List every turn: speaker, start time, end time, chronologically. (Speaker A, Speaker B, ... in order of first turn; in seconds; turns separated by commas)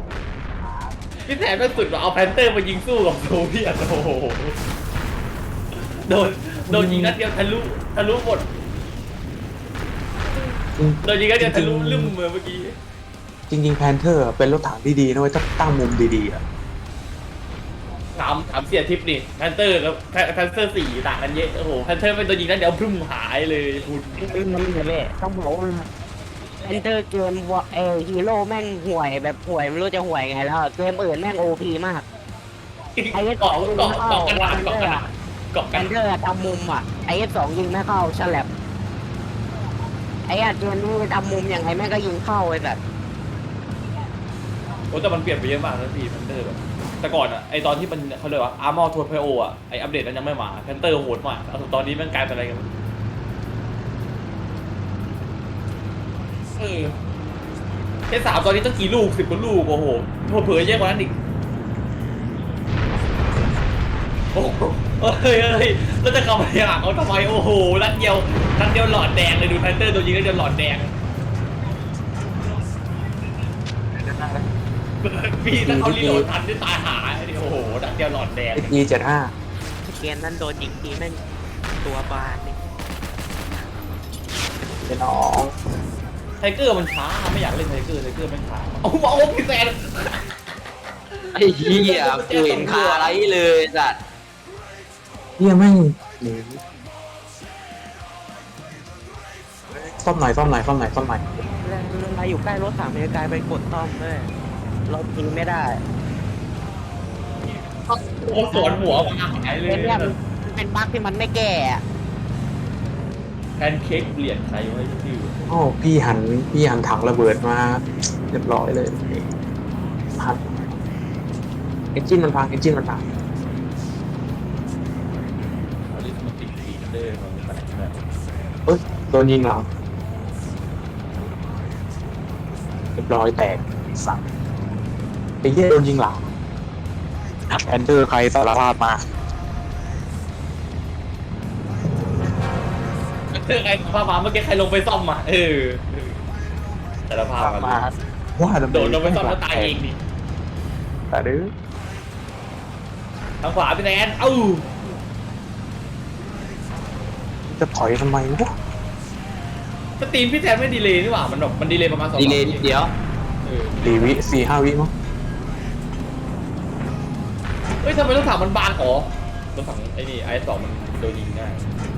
Speaker A: 1.3-4.6, Speaker A: 5.8-8.5, Speaker B: 6.7-7.2, Speaker B: 10.8-12.1, Speaker A: 11.0-12.8, Speaker B: 13.5-16.4, Speaker A: 18.1-24.4, Speaker C: 24.2-25.9, Speaker C: 26.6-32.1, Speaker A: 33.0-35.9, Speaker C: 33.1-35.0, Speaker C: 35.7-38.5, Speaker C: 40.3-42.8, Speaker A: 44.9-52.7, Speaker A: 56.5-57.0, Speaker A: 58.1-61.1, Speaker A: 64.3-70.9, Speaker B: 74.0-74.4, Speaker A: 75.0-78.8, Speaker B: 75.6-76.3, Speaker B: 78.5-79.3, Speaker C: 79.9-81.2, Speaker C: 81.8-82.6, Speaker B: 84.8-85.5, Speaker A: 86.4-90.3, Speaker A: 91.1-93.2, Speaker D: 91.3-94.0, Speaker B: 95.4-96.6, Speaker B: 99.7-101.4, Speaker C: 101.4-104.3, Speaker C: 104.9-105.8, Speaker A: 107.5-110.2, Speaker C: 108.5-109.0, Speaker C: 109.7-111.8, Speaker A: 113.6-115.4, Speaker B: 115.5-119.3, Speaker B: 120.2-120.7, Speaker B: 121.9-123.0, Speaker A: 125.9-128.0, Speaker B: 128.7-129.7, Speaker B: 132.9-134.2, Speaker B: 135.4-136.2, Speaker B: 137.5-139.0, Speaker A: 143.3-146.2, Speaker A: 147.1-147.8, Speaker B: 147.4-149.7, Speaker A: 148.7-150.0, Speaker B: 151.1-151.5, Speaker A: 153.4-154.7, Speaker B: 157.5-158.6, Speaker A: 160.0-162.7, Speaker D: 162.2-162.9, Speaker A: 163.4-164.2, Speaker B: 163.8-164.9, Speaker A: 167.8-171.7